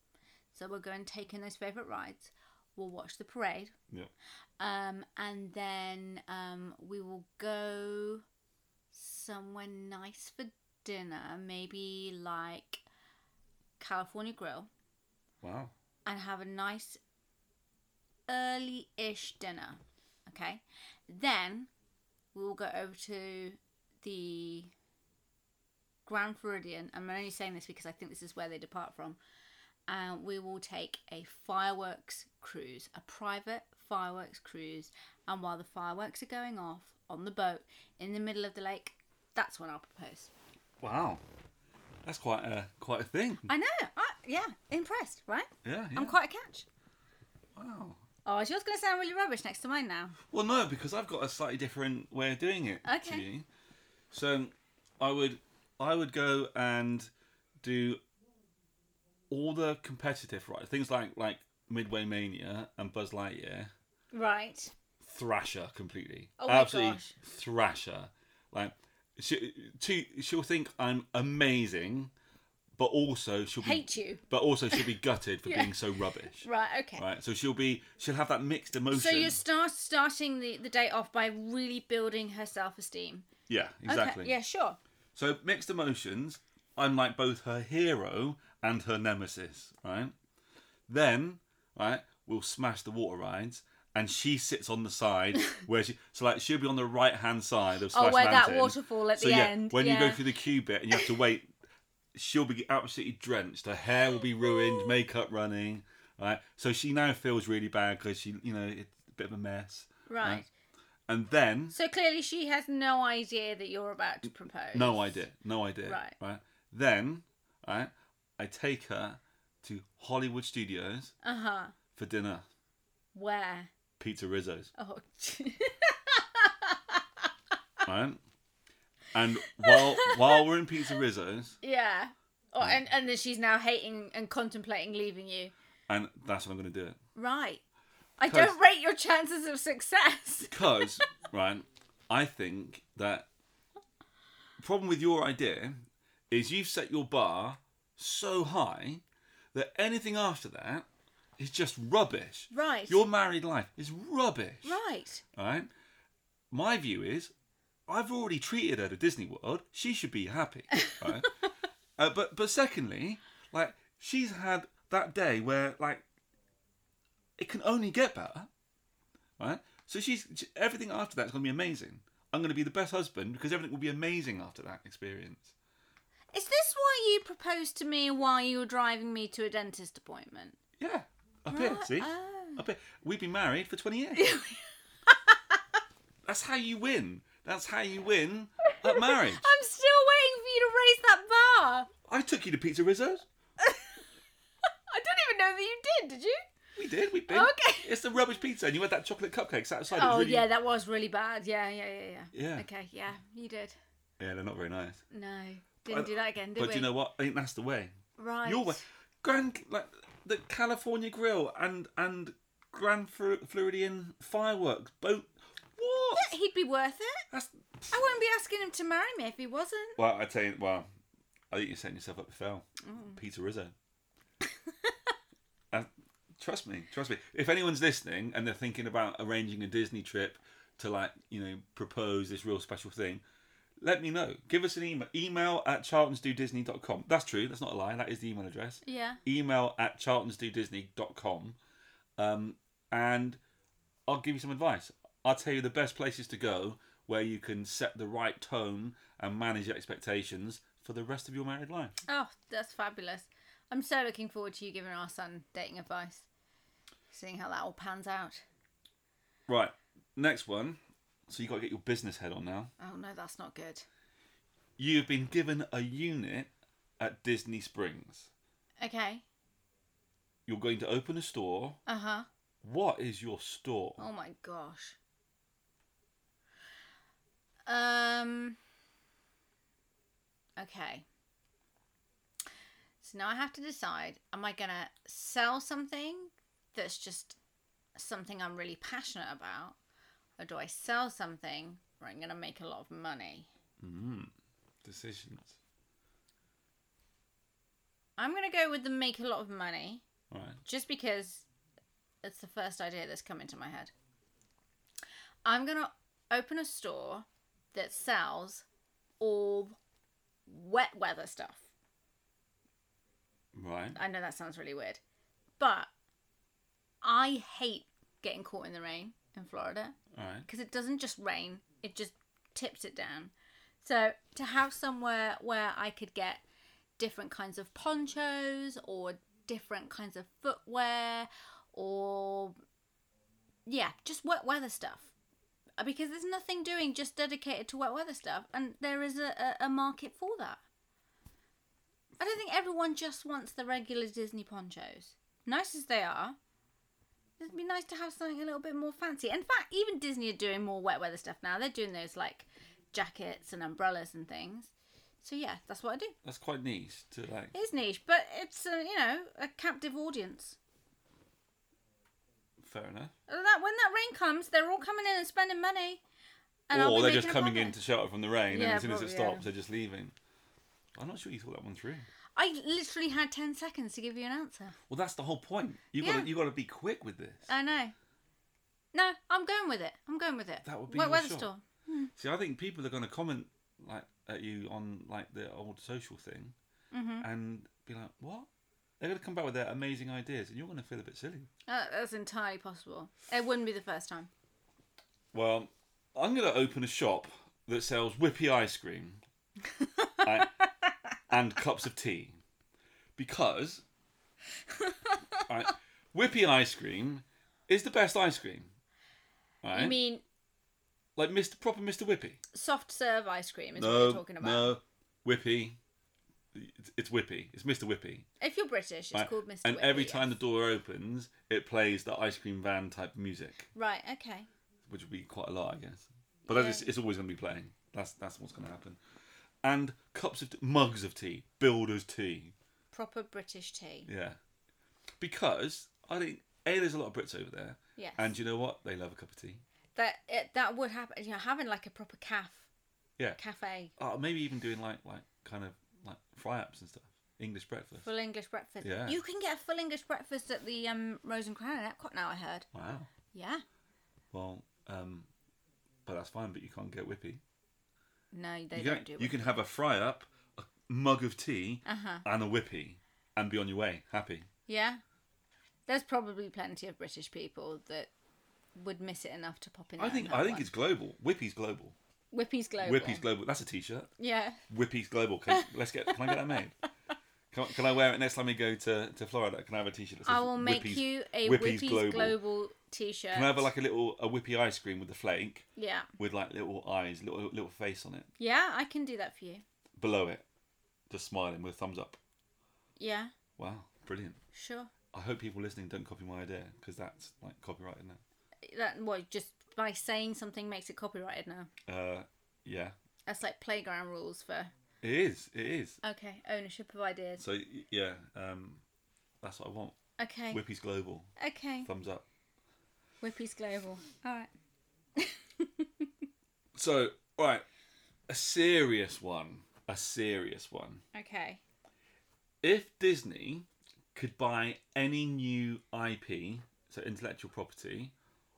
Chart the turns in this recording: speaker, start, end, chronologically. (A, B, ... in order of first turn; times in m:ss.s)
0:00.5-0:03.7 A
0:04.6-0:08.2 A
0:08.9-0:12.8 A
0:13.8-0:14.7 A
0:15.4-0:15.7 B
0:16.0-0:17.0 A
0:18.3-0:21.7 A
0:22.3-0:24.7 A
0:26.0-0:29.2 A
0:29.9-0:40.3 A
0:40.8-0:41.2 B
0:42.0-0:43.5 B
0:43.4-0:46.6 A
0:45.6-0:46.2 B
0:47.6-0:48.0 B
0:48.2-0:50.2 A
0:50.3-0:53.4 B
0:52.8-0:53.2 A
0:54.1-0:57.1 B
0:57.6-0:58.0 B
0:59.3-1:03.7 B
1:04.1-1:04.7 A
1:05.0-1:12.1 B
1:06.4-1:07.1 A
1:12.8-1:19.4 B
1:13.6-1:14.9 A
1:15.4-1:17.0 A
1:18.9-1:23.2 A
1:23.5-1:24.3 B
1:23.8-1:24.8 A
1:25.1-1:30.1 B
1:30.9-1:41.5 B
1:37.9-1:40.2 A
1:42.1-1:50.4 B
1:44.4-1:45.0 A
1:50.1-1:50.5 A
1:51.1-1:51.7 B
1:51.7-1:55.2 A
1:54.7-2:01.1 B
1:55.8-1:56.2 A
2:01.2-2:01.7 A
2:02.0-2:02.4 B
2:03.1-2:03.7 A
2:04.0-2:04.7 B
2:04.8-2:07.3 A
2:07.8-2:08.2 B
2:09.1-2:11.6 B
2:09.4-2:10.4 A
2:11.6-2:15.5 A
2:15.9-2:17.0 B
2:17.2-2:17.6 A
2:18.2-2:20.9 A
2:18.2-2:18.6 B
2:20.5-2:23.3 B
2:24.6-2:29.0 B
2:29.5-2:30.8 B
2:31.4-2:34.8 B
2:32.5-2:33.0 A
2:34.6-2:35.2 A
2:35.3-2:35.7 B
2:36.5-2:37.3 B
2:37.9-2:41.4 B
2:42.0-2:46.0 B
2:47.4-2:48.5 B
2:49.4-2:55.5 B
2:56.3-3:00.6 A
3:00.8-3:04.3 B
3:01.5-3:02.6 A
3:04.1-3:05.6 A
3:06.2-3:09.5 B
3:08.7-3:11.9 A
3:12.1-3:13.2 B
3:13.6-3:14.0 A
3:14.9-3:16.4 A
3:16.8-3:20.5 B
3:17.3-3:17.9 A
3:19.9-3:23.8 A
3:22.3-3:22.6 B
3:24.2-3:25.0 B
3:25.1-3:26.9 A
3:25.9-3:27.9 B
3:28.2-3:28.8 A
3:28.4-3:36.3 B
3:36.1-3:37.2 A
3:37.3-3:37.9 B
3:37.9-3:40.0 A
3:40.0-3:40.8 B
3:41.5-3:43.7 B
3:42.8-3:43.2 A
3:45.7-3:53.2 B
3:53.8-4:01.6 B
3:58.8-3:59.2 A
4:02.2-4:03.4 B
4:04.1-4:11.9 B
4:12.1-4:16.3 A
4:17.1-4:18.4 A
4:19.5-4:22.7 B
4:22.8-4:23.8 A
4:24.8-4:28.3 B
4:28.8-4:29.2 A
4:30.5-4:31.8 B
4:31.9-4:32.3 A
4:32.6-4:34.0 B
4:34.0-4:35.0 A
4:37.7-4:38.6 A
4:40.6-4:41.0 A
4:43.0-4:47.4 A
4:48.0-4:49.8 A
4:50.4-4:53.5 A
4:53.8-4:54.3 B
4:54.8-4:55.6 B
4:58.2-5:00.0 A
5:00.3-5:00.6 B
5:00.6-5:01.5 A
5:02.2-5:03.9 A
5:05.4-5:08.6 A
5:09.2-5:09.8 A
5:10.5-5:11.6 A
5:13.5-5:14.0 B
5:13.9-5:15.0 A
5:15.6-5:15.9 A
5:17.0-5:26.4 A
5:20.1-5:20.4 B
5:27.0-5:32.6 A
5:33.6-5:35.1 A
5:35.8-5:40.6 A
5:42.2-5:46.4 A
5:47.4-5:56.1 A
5:56.2-5:57.5 B
5:57.5-6:00.6 A
6:02.6-6:03.1 B
6:03.3-6:06.0 A
6:06.7-6:07.8 A
6:06.7-6:10.1 B
6:08.5-6:09.4 A
6:11.0-6:12.1 B
6:12.4-6:14.8 A
6:14.9-6:17.5 B
6:16.0-6:16.3 A
6:17.5-6:17.9 A
6:18.9-6:22.1 A
6:20.6-6:21.5 B
6:22.2-6:26.5 B
6:26.9-6:27.2 A
6:27.2-6:28.5 B
6:29.0-6:31.5 B
6:31.7-6:34.3 A
6:35.3-6:39.2 B
6:39.8-6:40.5 A
6:40.2-6:40.6 B
6:41.3-6:42.4 B
6:43.2-6:43.8 B
6:44.7-6:45.4 A
6:45.4-6:48.7 B
6:49.6-6:50.0 B
6:49.7-6:50.2 A
6:51.2-6:52.4 B
6:52.5-6:54.7 A
6:53.8-6:55.8 B
6:56.5-6:58.3 B
6:58.4-7:00.4 A
6:59.1-7:03.7 B
7:03.7-7:04.5 A
7:04.9-7:09.0 B
7:06.5-7:06.9 A
7:09.6-7:12.5 B
7:12.9-7:14.1 A
7:14.1-7:14.4 B
7:15.2-7:19.6 B
7:18.0-7:18.3 A
7:20.0-7:22.7 A
7:23.4-7:23.9 A
7:24.0-7:28.1 B
7:28.0-7:32.7 A
7:28.8-7:29.2 B
7:32.7-7:33.1 B
7:33.3-7:33.6 A
7:34.3-7:35.3 B
7:36.0-7:37.4 B
7:38.3-7:39.4 A
7:38.7-7:44.5 B
7:41.8-7:42.2 A
7:44.7-7:45.0 A
7:45.9-7:48.1 A
7:48.8-7:50.7 A
7:50.0-7:51.9 B
7:52.3-7:53.2 A
7:52.8-7:54.1 B
7:54.2-7:54.6 A
7:54.7-7:56.7 B
7:55.5-7:56.6 A
7:57.5-8:02.4 B
8:00.2-8:03.7 A
8:03.3-8:08.3 B
8:05.8-8:06.1 A
8:08.4-8:09.6 A
8:10.0-8:10.4 B
8:11.1-8:12.2 B
8:13.0-8:13.3 A
8:13.6-8:14.4 B
8:14.5-8:14.9 A
8:15.1-8:18.2 B
8:18.6-8:21.7 A
8:21.8-8:22.9 B
8:23.3-8:24.7 A
8:25.0-8:26.0 B
8:26.0-8:27.4 A
8:27.4-8:28.8 B
8:29.4-8:30.0 B
8:30.2-8:30.6 A
8:30.5-8:31.3 B
8:31.4-8:31.9 A
8:31.8-8:32.2 B
8:33.2-8:34.5 A
8:35.2-8:36.1 A
8:36.7-8:37.6 B
8:38.3-8:41.0 B
8:41.1-8:41.6 A
8:42.6-8:48.1 B